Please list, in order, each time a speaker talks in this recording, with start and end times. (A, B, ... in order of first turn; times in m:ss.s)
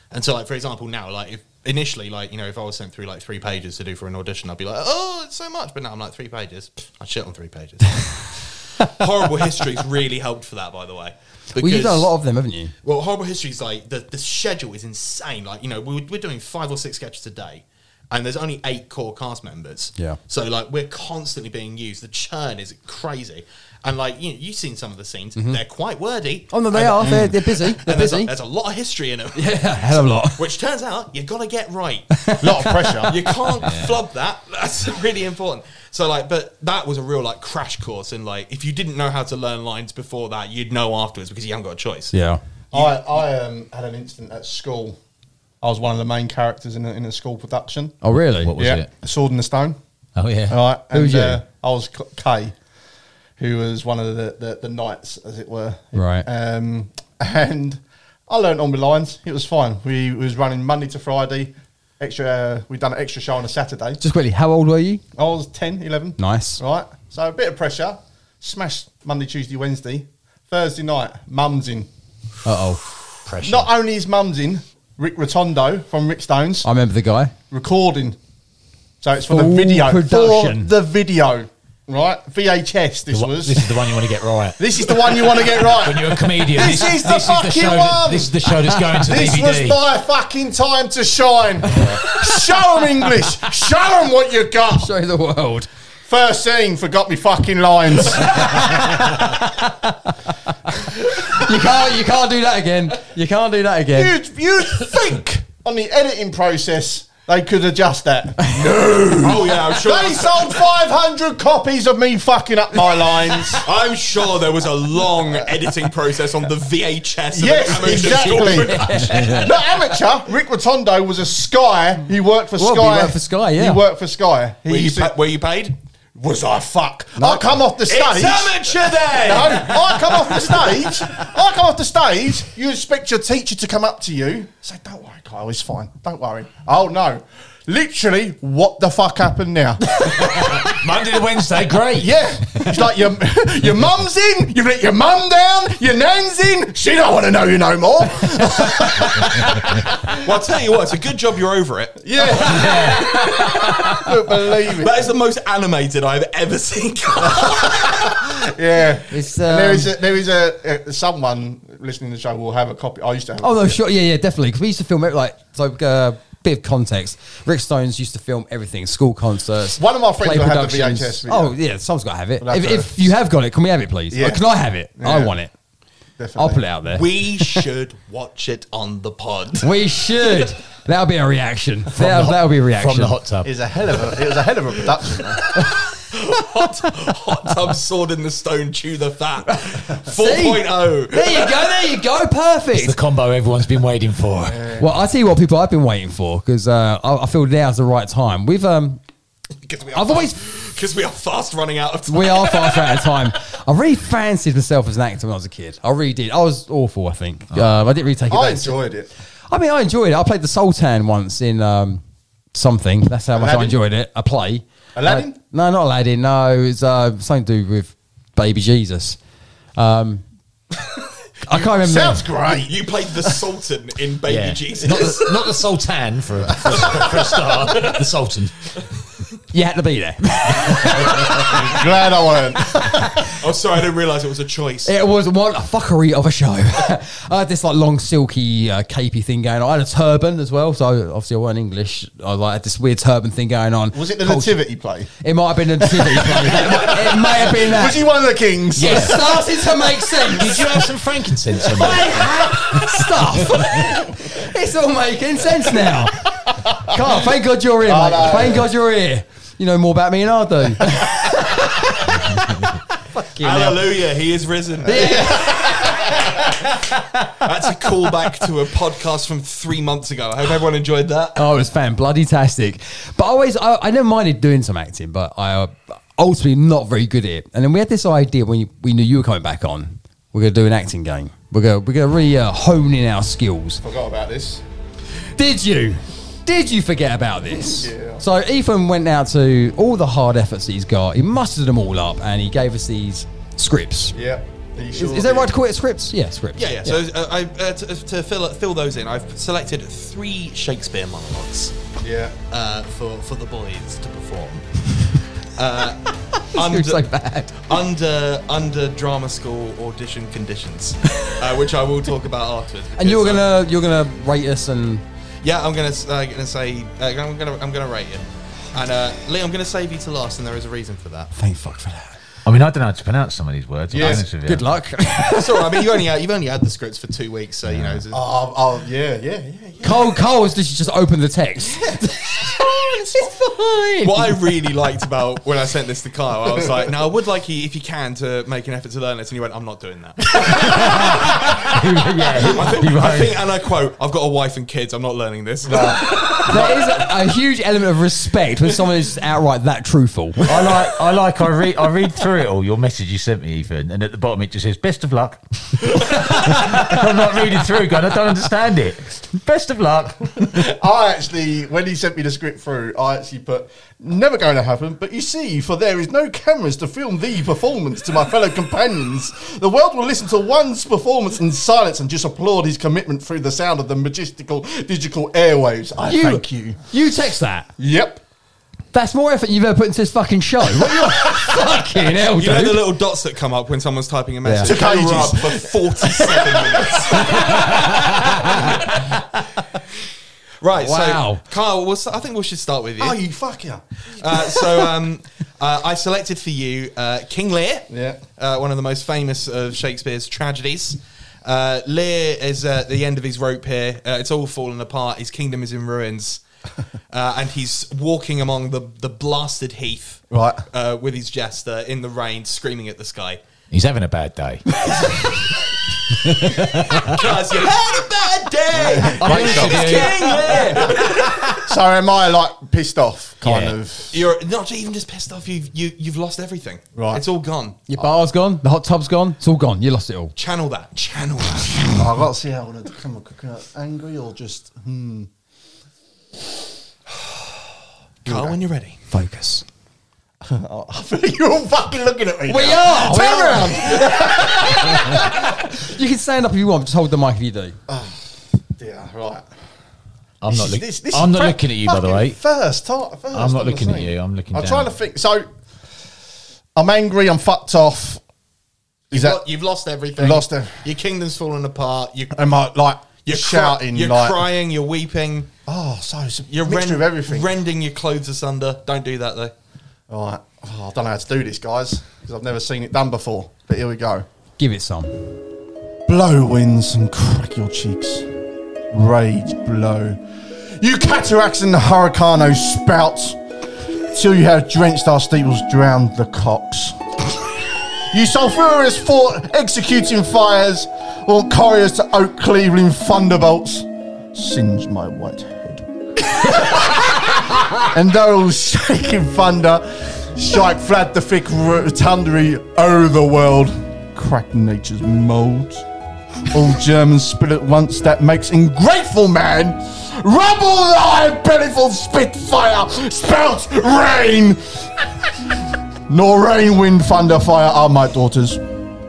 0:00.1-0:12.1 A
0:11.6-0:12.7 B
0:12.8-0:32.1 A
0:26.5-0:28.3 B
0:27.0-0:27.3 C
0:29.3-0:30.4 B
0:32.1-0:33.4 B
0:32.4-0:33.3 C
0:33.1-0:42.1 A
0:33.6-0:34.0 D
0:42.1-0:42.4 B
0:42.7-0:45.0 C
0:45.6-0:48.0 C
0:48.0-0:48.5 B
0:48.4-0:48.9 D
0:48.6-0:49.8 C
0:50.2-0:50.6 D
0:50.5-0:52.6 C
0:50.9-0:51.4 B
0:53.4-1:04.0 C
0:56.0-0:56.3 B
1:04.0-1:05.0 B
1:05.2-1:11.9 C
1:06.2-1:06.6 B
1:12.4-1:12.8 B
1:13.3-1:13.7 D
1:13.4-1:16.7 C
1:16.6-1:17.3 B
1:17.5-1:18.2 C
1:19.0-1:23.8 C
1:19.3-1:20.7 B
1:23.1-1:29.8 D
1:24.6-1:34.9 C
1:28.7-1:29.0 B
1:31.7-1:32.4 B
1:34.7-1:35.7 B
1:36.0-1:39.0 C
1:38.2-1:39.9 B
1:40.8-1:44.2 B
1:43.9-1:53.7 C
1:49.2-1:50.7 A
1:53.6-1:59.2 A
1:55.2-1:55.6 C
1:57.3-2:05.1 C
1:57.8-1:59.5 B
2:02.6-2:03.8 B
2:04.7-2:05.8 A
2:06.2-2:20.7 C
2:07.9-2:10.9 A
2:20.0-2:22.7 D
2:22.0-2:30.1 C
2:30.1-2:33.9 A
2:32.0-2:33.1 C
2:32.4-2:33.2 D
2:33.9-2:35.1 C
2:34.6-2:38.3 A
2:37.2-2:43.8 C
2:39.1-2:40.0 B
2:43.4-2:55.5 B
2:49.8-2:51.6 C
2:52.4-2:53.1 C
2:54.1-2:55.3 C
2:56.2-2:56.6 C
2:56.4-2:57.6 B
2:56.9-2:59.7 A
2:59.6-3:03.2 B
3:01.9-3:03.5 D
3:03.4-3:05.5 C
3:05.4-3:12.0 A
3:10.0-3:13.0 B
3:12.7-3:14.7 D
3:14.5-3:14.9 C
3:14.8-3:19.0 B
3:19.7-3:23.2 A
3:19.9-3:20.4 B
3:22.1-3:28.8 B
3:28.3-3:29.1 C
3:29.5-3:32.0 B
3:32.5-3:39.2 B
3:33.4-3:33.8 C
3:35.0-3:35.4 C
3:39.8-3:40.2 B
3:41.4-3:42.3 B
3:41.5-3:42.9 C
3:42.4-3:45.6 A
3:44.3-3:48.7 D
3:46.5-3:47.6 C
3:49.5-3:51.5 B
3:50.9-3:53.2 C
3:53.3-3:54.9 A
3:54.9-4:04.6 B
4:03.9-4:05.1 C
4:05.2-4:08.1 B
4:05.8-4:09.4 C
4:08.8-4:09.2 D
4:08.8-4:10.8 B
4:10.2-4:12.3 D
4:11.6-4:12.3 C
4:11.8-4:24.0 B
4:13.2-4:13.6 D
4:17.8-4:18.7 C
4:22.1-4:22.8 D
4:23.4-4:26.8 A
4:24.8-4:28.4 B
4:25.0-4:26.4 C
4:27.4-4:31.5 A
4:31.4-4:43.8 B
4:43.8-4:44.6 C
4:45.4-4:54.2 B
4:47.5-4:48.2 C
4:54.1-4:55.6 C
4:55.0-4:57.0 B
4:56.6-5:01.8 A
5:02.0-5:02.4 C
5:02.5-5:07.0 A
5:06.5-5:07.6 B
5:07.6-5:13.5 A
5:13.0-5:15.0 B
5:15.4-5:21.3 A
5:21.4-5:22.2 B
5:22.4-5:24.7 D
5:23.9-5:24.3 C
5:24.4-5:25.9 B
5:25.3-5:28.2 A
5:27.7-5:28.0 D
5:28.1-5:30.2 C
5:29.8-5:34.4 B
5:34.0-5:41.5 A
5:40.4-5:43.4 B
5:40.8-5:43.2 D
5:42.5-5:47.0 A
5:45.6-5:46.6 C
5:46.3-5:50.6 B
5:50.4-6:00.7 D
6:00.4-6:16.8 C
6:16.1-6:17.7 B
6:17.8-6:18.2 C
6:18.9-6:22.9 B
6:22.3-6:27.7 A
6:24.4-6:24.7 B
6:24.6-6:27.4 C
6:27.1-6:29.3 B
6:30.6-6:33.2 A
6:30.7-6:31.4 B
6:33.0-6:34.8 C
6:34.1-6:46.4 A
6:37.9-6:38.2 C
6:47.1-6:53.4 A
6:50.3-6:50.6 C
6:53.7-6:54.9 D
6:56.2-6:57.2 D
6:57.0-7:01.6 A
6:58.7-7:04.2 C
6:59.2-7:00.8 B
6:59.2-7:00.3 D
7:03.4-7:03.8 D
7:04.1-7:07.8 A
7:07.0-7:07.2 C
7:07.9-7:10.3 B
7:10.4-7:11.9 A
7:11.9-7:15.3 C
7:18.2-7:18.6 C
7:18.2-7:19.0 A
7:19.1-7:19.6 B
7:20.4-7:25.6 C
7:22.5-7:27.8 B
7:27.9-7:29.5 C
7:30.4-7:32.4 D
7:30.4-7:35.5 C
7:33.3-7:34.9 D
7:36.8-7:38.2 C
7:39.1-7:42.4 A
7:39.1-7:39.4 C
7:40.2-7:40.9 C
7:42.3-7:44.5 C
7:43.2-7:45.5 A
7:45.7-7:47.5 C
7:46.5-7:49.5 A
7:50.1-7:54.3 C
7:54.6-7:55.3 B
7:56.1-7:58.3 C
7:58.9-8:03.4 C
8:04.1-8:07.0 C
8:08.1-8:25.9 C
8:26.5-8:35.2 C
8:36.1-8:38.6 C